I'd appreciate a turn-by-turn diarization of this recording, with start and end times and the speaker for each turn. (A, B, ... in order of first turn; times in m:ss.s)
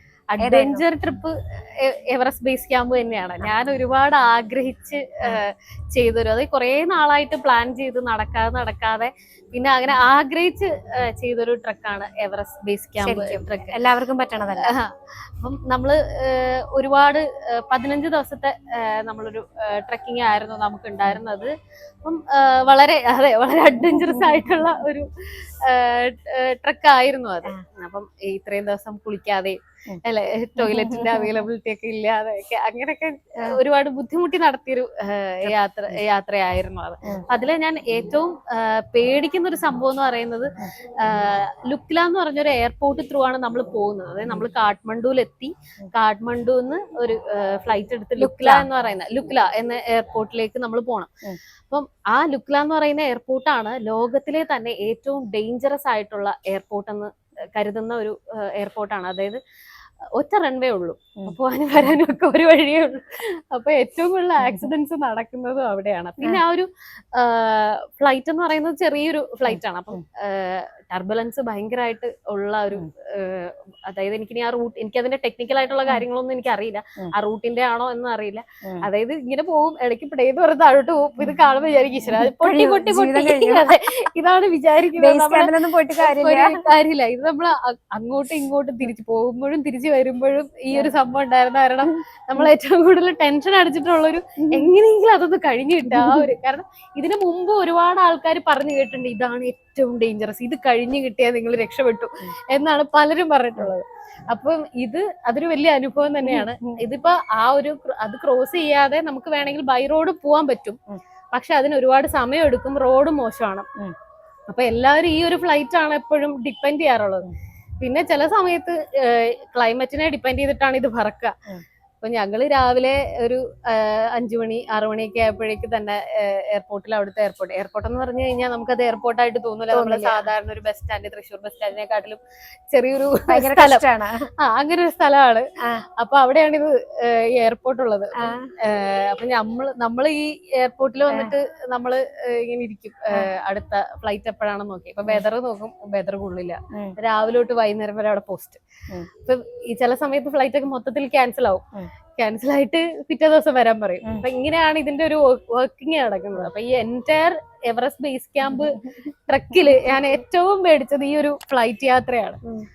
0:00.3-0:13.8 A
0:00.4-0:00.8 B
0:13.0-0:14.7 B
0:14.5-0:21.5 A
0:22.0-0:51.1 A
0:23.9-0:24.3 B
0:30.6-0:31.4 B
0:48.2-0:48.7 B
0:51.7-0:59.4 A
1:00.2-1:50.8 A
1:09.5-1:10.0 B
1:22.1-1:23.8 B
1:25.0-1:26.6 B
1:35.9-1:36.3 B
1:46.2-1:46.8 B
1:51.3-1:53.7 A
1:54.5-1:57.3 A
1:57.8-2:01.4 A
2:02.0-2:12.2 A
2:09.7-2:10.2 B
2:12.7-2:13.9 A
2:13.3-2:14.3 B
2:14.4-2:15.4 A
2:16.0-2:28.6 A
2:18.2-2:18.5 B
2:29.2-2:31.6 A
2:32.2-2:42.4 A